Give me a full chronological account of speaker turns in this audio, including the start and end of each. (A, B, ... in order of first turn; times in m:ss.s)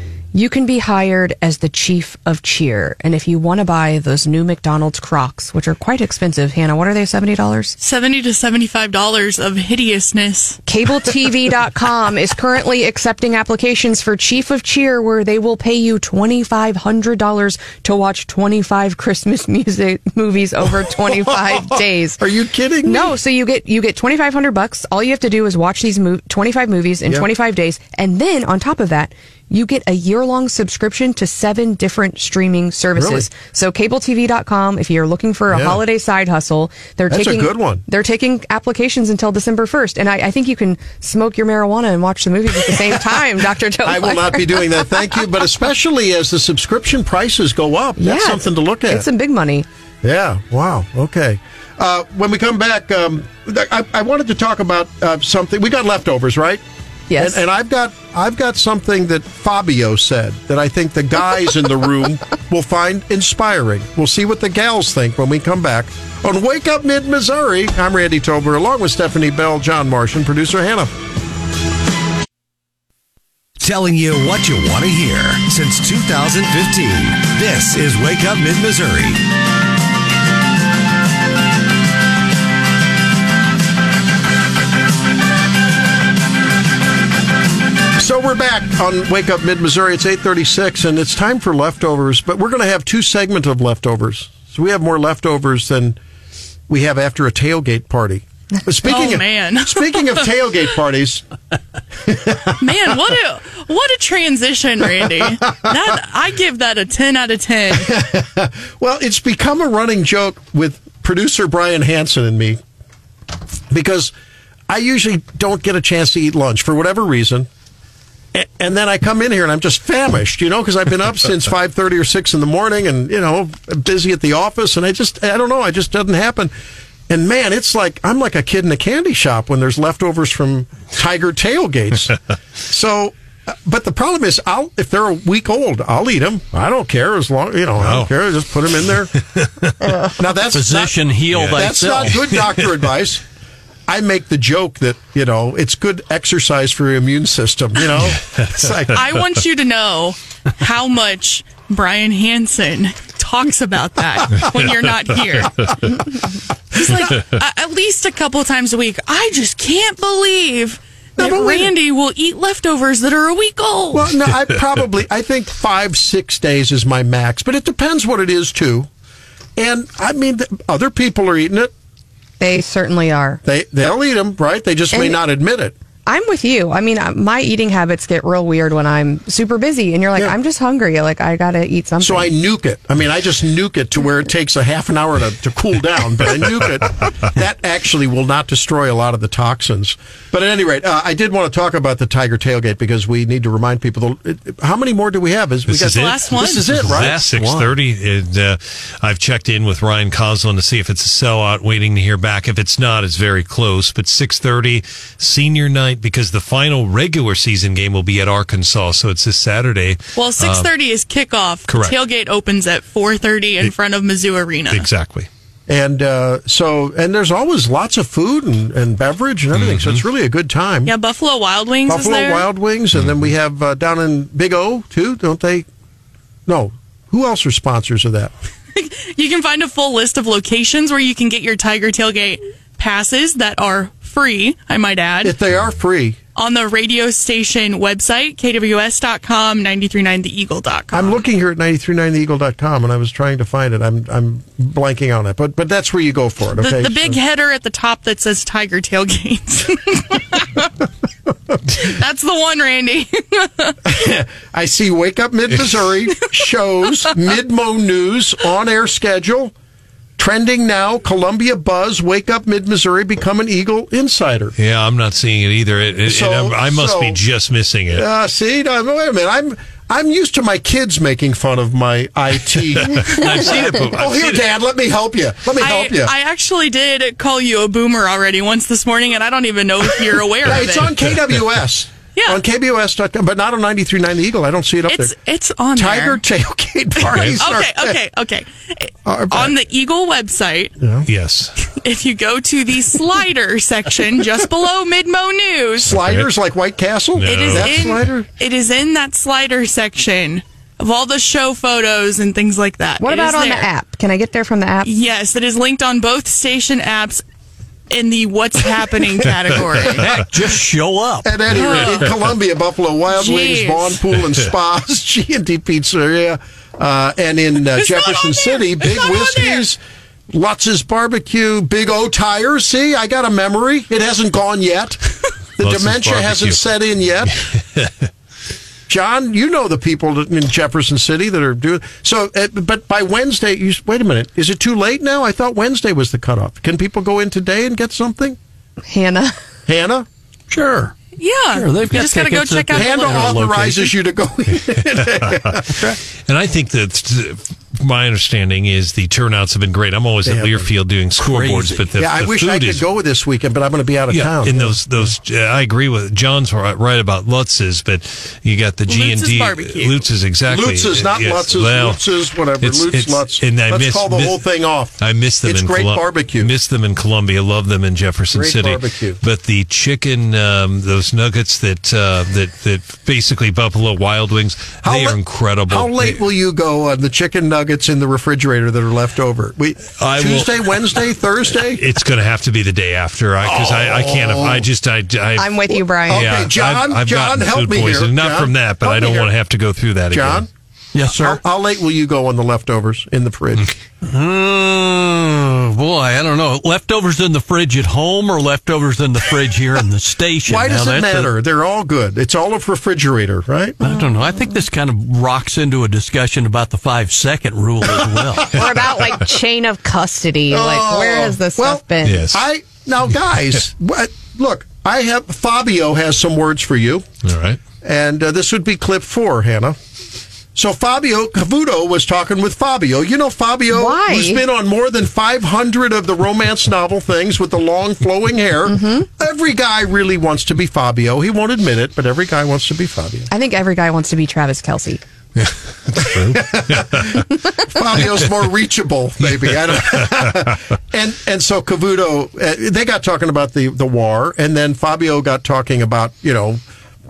0:00.3-0:07.8 A
0:07.8-0:10.6 B
0:10.7-0:22.2 A
0:21.1-0:23.1 C
0:22.8-0:45.0 A
0:33.0-0:33.3 C
0:35.5-0:35.8 C
0:37.1-0:37.8 C
0:42.7-0:49.1 C
0:48.0-0:49.7 A
0:50.0-0:56.6 C
0:57.1-0:57.4 A
0:57.2-1:10.9 C
1:13.6-1:19.2 D
1:28.0-1:36.0 C
1:36.7-1:41.3 C
1:38.8-1:40.3 B
1:42.1-1:42.5 C
1:42.6-1:47.9 B
1:47.8-1:52.6 C
1:53.7-1:54.1 C
1:54.7-1:57.5 C
1:58.3-2:06.5 C
2:07.1-2:12.1 C
2:12.7-2:19.1 C
2:17.8-2:18.1 E
2:18.7-2:19.7 E
2:19.8-2:23.2 C
2:20.5-2:22.3 F
2:21.3-2:22.6 E
2:23.9-2:29.0 C
2:28.1-2:28.4 E
2:28.9-2:35.9 B
2:36.7-2:44.2 B
2:41.2-2:41.7 C
2:43.9-2:48.9 C
2:49.6-2:51.7 C
2:52.4-2:53.4 A
2:53.4-2:55.8 C
2:54.9-2:55.2 A
2:56.1-3:02.4 A
3:02.0-3:17.2 C
3:15.7-3:30.7 E
3:15.9-3:16.9 B
3:16.4-3:17.7 F
3:30.2-3:34.9 B
3:31.7-3:32.0 E
3:34.7-3:35.3 E
3:35.7-3:40.9 C
3:39.5-3:40.0 E
3:40.8-3:42.5 B
3:41.9-3:45.7 C
3:43.0-3:43.2 E
3:46.5-3:48.3 C
3:48.7-3:55.4 B
3:55.2-3:56.2 C
3:56.4-4:01.2 B
4:00.9-4:07.2 C
4:06.6-4:10.7 B
4:11.7-4:13.8 B
4:13.8-4:19.5 C
4:20.2-4:24.6 C
4:24.6-4:28.0 E
4:26.0-4:27.2 C
4:27.9-4:36.1 C
4:32.8-4:34.4 E
4:35.6-4:41.0 B
4:40.4-4:45.2 C
4:42.2-4:42.4 B
4:44.9-4:46.2 B
4:45.7-4:48.0 C
4:47.0-4:47.4 E
4:47.2-4:50.7 B
4:49.0-4:49.5 C
4:50.8-4:51.1 C
4:51.1-4:51.5 E
4:51.6-4:56.0 B
4:55.8-4:58.2 C
4:56.0-4:56.3 E
4:57.2-4:58.1 E
4:57.2-5:03.7 B
5:03.0-5:04.9 A
5:04.8-5:07.2 B
5:07.9-5:10.1 B
5:09.8-5:10.2 C
5:10.0-5:11.6 F
5:11.2-5:25.0 C
5:11.5-5:12.2 B
5:13.1-5:14.0 B
5:17.8-5:19.6 B
5:25.6-5:27.4 C
5:25.6-5:26.7 E
5:27.4-5:28.1 E
5:28.9-5:38.4 C
5:38.9-5:39.4 A
5:39.7-5:40.1 C
5:40.5-5:40.9 F
5:41.2-5:43.5 B
5:41.6-5:43.9 F
5:42.7-5:45.8 C
5:45.7-5:46.0 F
5:46.2-5:52.8 E
5:50.2-5:50.7 C
5:51.2-5:51.8 F
5:52.0-5:54.8 C
5:54.1-6:02.0 E
5:58.9-6:00.1 B
6:00.5-6:06.5 C
6:02.6-6:04.4 E
6:05.0-6:16.2 E
6:08.3-6:09.2 C
6:14.8-6:15.2 C
6:15.7-6:21.8 C
6:20.0-6:21.0 E
6:21.7-6:30.5 E
6:23.4-6:24.7 C
6:25.4-6:26.4 A
6:26.1-6:29.3 C
6:30.1-6:30.5 C
6:31.0-6:31.4 F
6:31.0-6:33.7 C
6:34.0-6:41.3 F
6:40.5-6:43.8 C
6:43.8-6:48.5 F
6:48.5-6:52.2 A
6:50.5-6:57.1 C
6:52.0-6:52.4 E
6:57.2-6:57.6 E
6:57.8-6:59.8 C
7:00.6-7:13.3 C
7:03.7-7:04.4 A
7:08.7-7:09.1 A
7:13.3-7:15.0 A
7:15.4-7:17.2 E
7:16.0-7:26.6 C
7:19.8-7:20.1 E